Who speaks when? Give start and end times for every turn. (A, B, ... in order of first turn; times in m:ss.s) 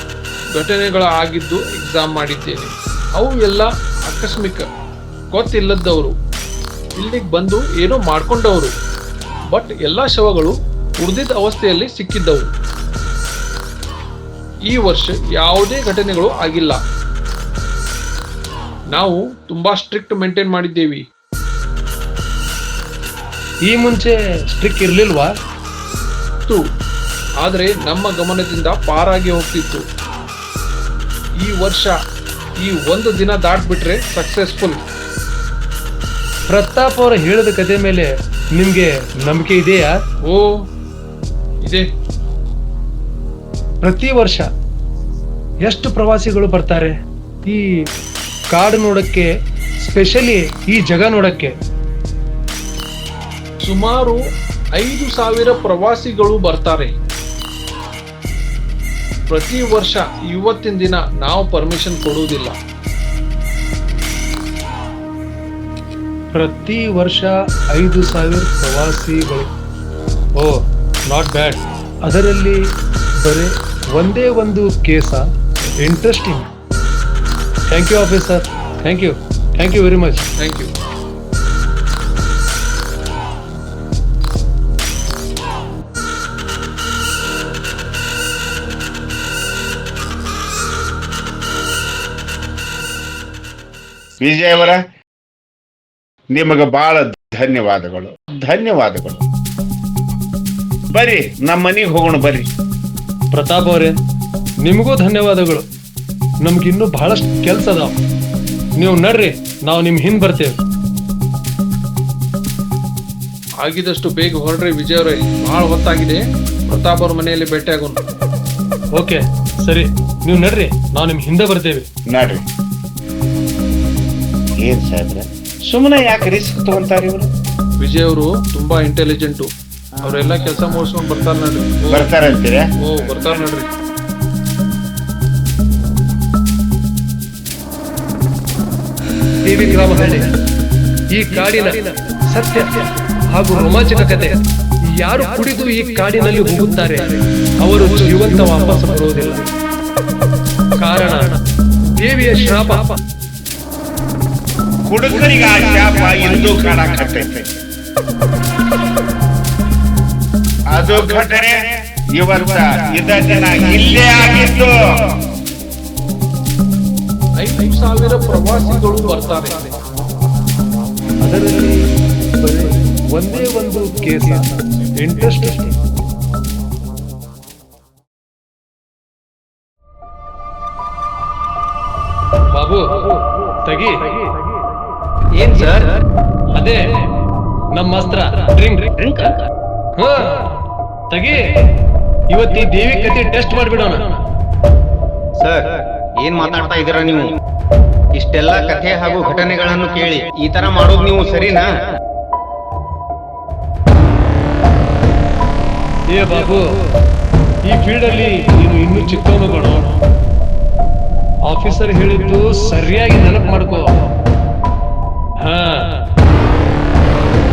0:00.5-0:04.6 A
0:05.3-0:06.2 A
0:07.0-0:08.7 A
0:09.5-0:12.5 A
0:14.7-0:16.8 A
0:18.9-0:21.0 A
0:23.7-0:25.3 B
0:27.4-0:29.8 A
0:31.4-0:31.9 A
0:32.6-0:34.8 A
0:36.5-0:40.0 B
0:40.2-0:40.6 A
0:43.8-0:44.5 B
0:45.6-0:47.8 B
0:48.5-0:49.3 B
0:49.8-0:51.5 B
0:53.6-0:54.2 A
0:54.7-0:56.9 A
0:59.3-1:02.6 A
1:06.3-1:09.5 B
1:10.4-1:12.6 B
1:13.2-1:15.3 B
1:15.8-1:16.5 B
1:17.7-1:20.3 B
1:20.4-1:20.7 A
1:34.2-1:34.8 C
1:36.3-1:39.2 C
1:40.9-1:42.5 C
1:43.3-1:43.9 B
1:44.6-1:45.6 B
1:46.4-1:47.9 B
1:48.8-1:50.6 B
1:53.6-1:58.0 A
1:58.9-2:01.8 B
2:02.1-2:02.4 C
2:04.6-2:07.3 C
2:07.8-2:09.5 A
2:10.0-2:12.1 A
2:11.9-2:12.6 C
2:12.8-2:13.7 A
2:19.4-2:20.3 B
2:21.1-2:29.5 B
2:30.8-2:31.4 B
2:32.0-2:33.0 B
2:34.9-2:37.5 C
2:40.7-2:44.8 C
2:47.4-2:49.8 A
2:51.2-2:55.8 B
3:02.5-3:04.3 B
3:05.3-3:06.0 D
3:06.5-3:06.9 B
3:07.7-3:08.9 B
3:09.0-3:09.5 D
3:10.0-3:10.5 B
3:11.1-3:11.6 B
3:12.3-3:14.2 B
3:15.4-3:17.4 D
3:18.1-3:21.7 D
3:26.1-3:26.6 B
3:27.6-3:29.9 B
3:31.5-3:33.9 B
3:35.4-3:36.1 B